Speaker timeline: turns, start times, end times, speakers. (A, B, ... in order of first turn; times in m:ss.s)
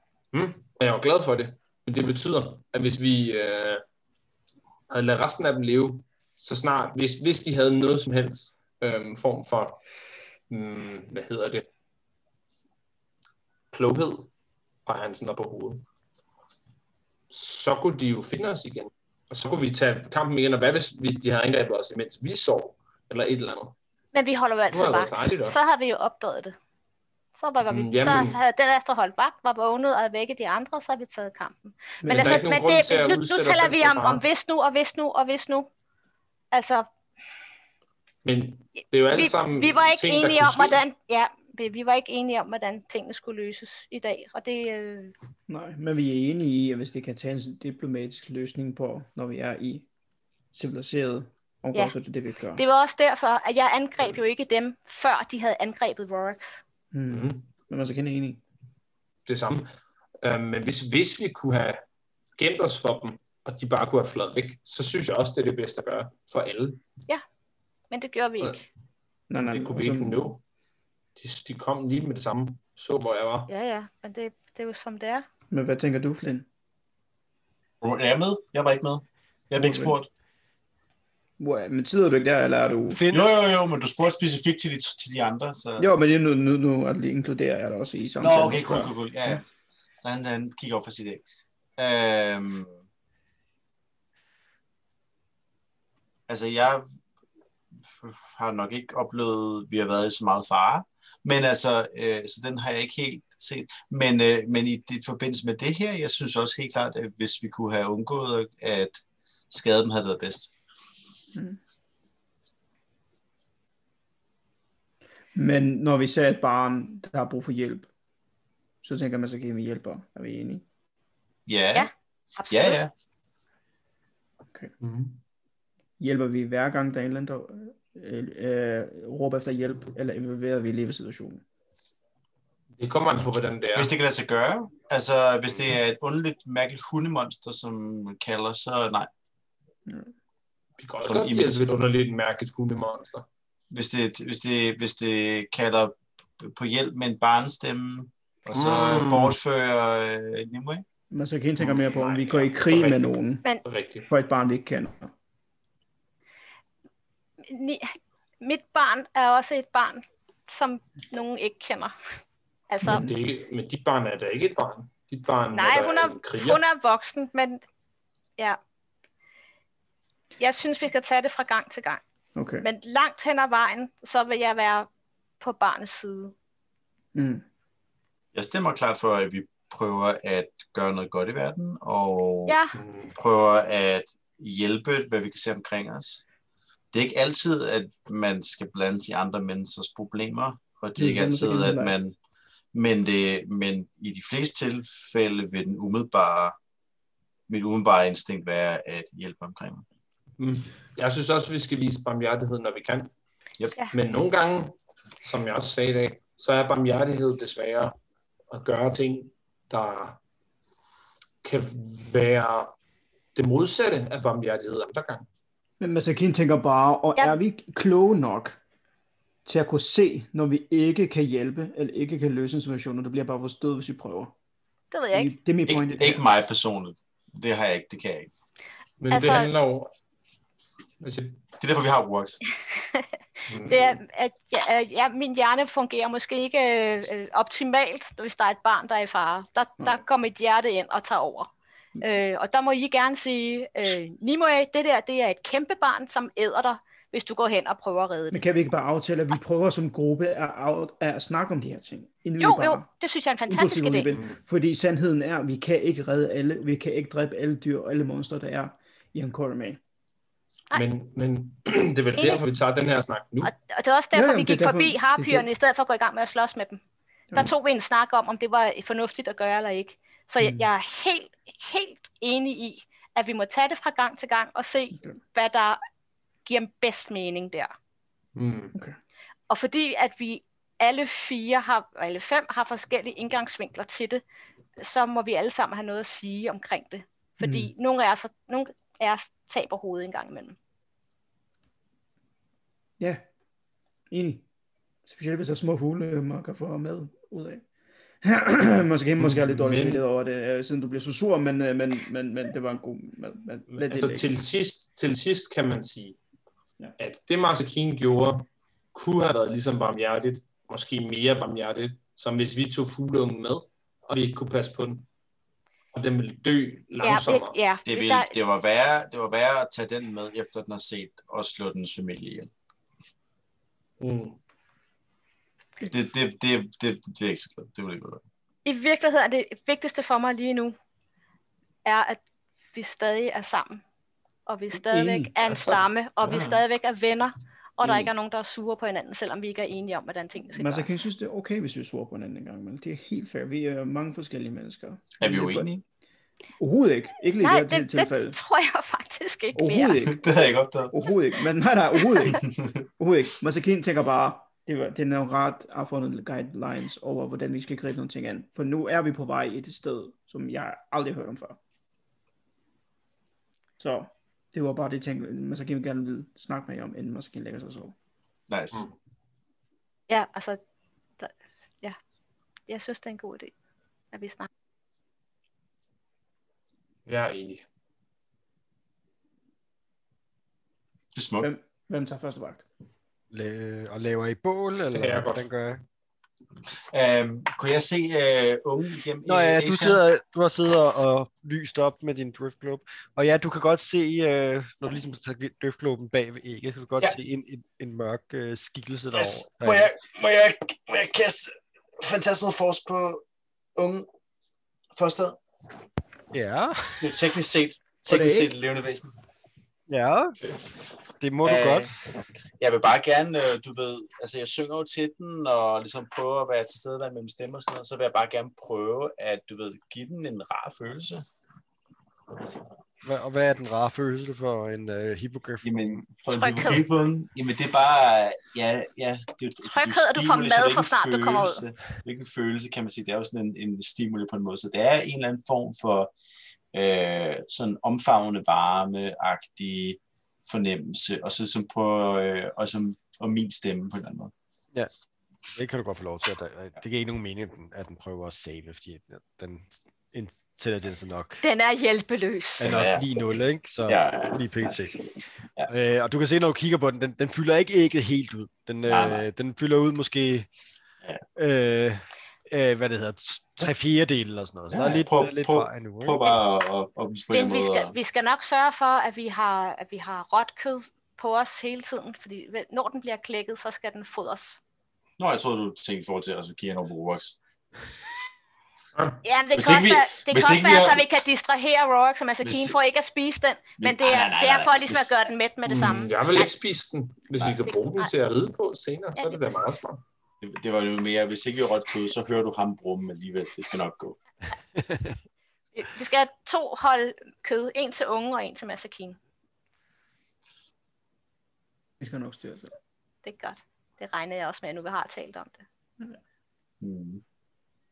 0:00.3-0:03.8 A
0:04.9-0:09.8 A
0:10.5-0:11.7 A
0:13.7-0:14.3 A
0:14.9-0:15.8 A
0:17.3-0:23.8 A
0:24.1-0:26.6 B
0:24.7-0:25.6 A
0:27.4-0:35.7 B
0:27.7-0:28.4 A
0:32.0-0:32.4 C
0:32.1-0:34.2 A
0:36.5-0:36.9 B
0:38.2-0:40.8 A
0:39.1-0:45.1 B
0:45.5-0:49.9 C
0:50.5-0:52.6 C
0:52.6-0:56.6 B
0:56.9-0:58.4 C
0:57.1-0:57.4 A
0:59.3-0:59.7 A
1:00.2-1:01.8 A
1:02.4-1:06.8 A
1:07.9-1:08.6 B
1:09.3-1:10.2 C
1:09.4-1:10.4 A
1:11.2-1:13.5 A
1:13.5-1:15.3 B
1:15.5-1:16.5 C
1:17.8-1:20.1 D
1:19.6-1:20.0 C
1:21.4-1:23.0 C
1:22.9-1:23.3 E
1:23.1-1:25.9 D
1:25.8-1:29.4 C
1:28.2-1:29.5 D
1:30.0-1:31.2 D
1:31.8-1:32.8 D
1:36.3-1:36.9 D
1:37.8-1:50.5 D
1:51.3-1:51.6 C
1:55.4-1:57.9 C
1:58.8-2:00.6 C
2:01.5-2:01.9 D
2:01.8-2:02.8 B
2:02.5-2:02.9 D
2:04.8-2:05.2 A
2:06.0-2:11.4 C
2:12.8-2:13.9 A
2:13.7-2:19.1 D
2:20.8-2:23.3 A
2:21.0-2:21.6 D
2:23.7-2:30.8 D
2:28.5-2:29.4 A
2:31.1-2:33.4 C
2:31.6-2:34.1 A
2:34.1-2:35.1 C
2:37.4-2:41.9 B
2:42.7-2:43.1 B
2:42.8-2:43.1 C
2:42.8-2:46.6 A
2:45.5-2:47.6 B
2:50.4-2:52.0 B
2:52.4-2:52.7 C
2:52.6-2:54.9 B
2:55.4-2:56.3 B
2:57.2-2:57.4 C
2:58.3-3:02.6 D
3:02.5-3:02.7 B
3:02.8-3:03.1 A
3:03.1-3:06.2 D
3:06.9-3:12.2 D
3:11.0-3:12.0 C
3:12.7-3:16.6 D
3:17.5-3:19.8 D
3:20.4-3:23.1 A
3:23.9-3:28.0 A
3:28.5-3:30.2 A
3:31.4-3:32.7 A
3:33.4-3:35.3 A
3:35.8-3:38.6 C
3:39.4-3:44.3 C
3:44.9-3:45.4 B
3:45.1-3:46.2 C
3:45.7-3:48.3 D
3:49.0-3:49.9 A
3:49.1-3:49.5 B
3:51.0-3:51.4 A
3:51.6-3:52.4 D
3:52.8-3:53.1 B
3:53.5-3:53.8 A
3:53.7-4:01.5 B
4:02.0-4:08.4 B
4:08.3-4:12.9 C
4:12.4-4:14.2 B
4:13.5-4:19.8 C
4:20.7-4:23.5 A
4:22.2-4:22.4 B
4:23.4-4:26.8 B
4:24.1-4:25.5 C
4:27.3-4:35.8 B
4:30.4-4:30.7 C
4:36.4-4:37.7 B
4:38.4-4:38.7 A
4:39.5-4:44.2 B
4:44.8-4:50.6 B
4:47.4-4:47.7 C
4:54.1-4:54.4 C
4:55.1-4:57.6 C
4:58.2-5:04.3 C
4:59.2-5:00.0 A
5:03.7-5:06.2 A
5:07.0-5:15.1 A
5:15.9-5:17.6 A
5:17.0-5:18.3 B
5:17.9-5:22.5 D
5:24.0-5:24.4 A
5:25.9-5:28.2 D
5:28.6-5:30.8 B
5:31.8-5:32.2 B
5:32.7-5:33.8 B
5:34.5-5:40.9 B
5:34.8-5:35.3 C
5:35.4-5:35.8 A
5:36.2-5:36.6 D
5:37.8-5:38.1 C
5:40.5-5:45.7 C
5:45.2-5:45.8 D
5:46.6-5:48.4 C
5:47.4-5:50.0 B
5:49.6-5:50.4 C
5:50.1-5:50.9 D
5:50.9-5:52.5 C
5:52.4-5:52.8 D
5:53.0-6:01.6 C
6:03.8-6:08.0 C
6:08.5-6:08.9 D
6:10.1-6:10.6 B
6:11.2-6:12.0 B
6:12.7-6:13.5 B
6:14.1-6:14.5 B
6:17.1-6:17.6 A
6:21.1-6:21.5 D
6:21.4-6:22.6 C
6:23.3-6:25.8 E
6:24.9-6:25.5 A
6:26.9-6:30.0 D
6:29.2-6:39.9 E
6:39.1-6:43.2 D
6:43.8-6:44.1 D
6:44.9-6:45.4 D
6:46.3-6:47.2 E
6:47.0-6:49.2 D
6:48.1-6:48.5 C
6:49.9-6:50.4 E
6:51.2-6:51.9 E
6:51.4-6:52.0 D
6:52.6-7:01.2 D
7:02.3-7:02.7 D
7:03.0-7:06.1 E
7:05.6-7:16.1 D
7:06.3-7:06.8 B
7:09.6-7:11.6 B
7:16.7-7:24.3 D
7:25.5-7:31.4 E
7:31.4-7:32.7 B
7:32.6-7:35.0 E
7:32.6-7:35.7 D
7:35.7-7:40.5 E
7:38.9-7:39.2 D
7:41.4-7:46.2 E
7:44.7-7:48.0 D
7:47.3-7:54.6 B
7:55.2-7:57.4 D
7:59.2-8:06.5 B
7:59.5-8:01.0 D
8:02.4-8:02.8 D
8:03.8-8:05.2 D
8:05.7-8:10.0 A
8:07.6-8:08.1 B
8:09.2-8:09.6 B
8:10.4-8:14.2 D
8:14.8-8:15.2 E
8:15.8-8:19.2 B
8:22.0-8:22.7 C
8:23.2-8:25.6 B
8:26.8-8:27.2 D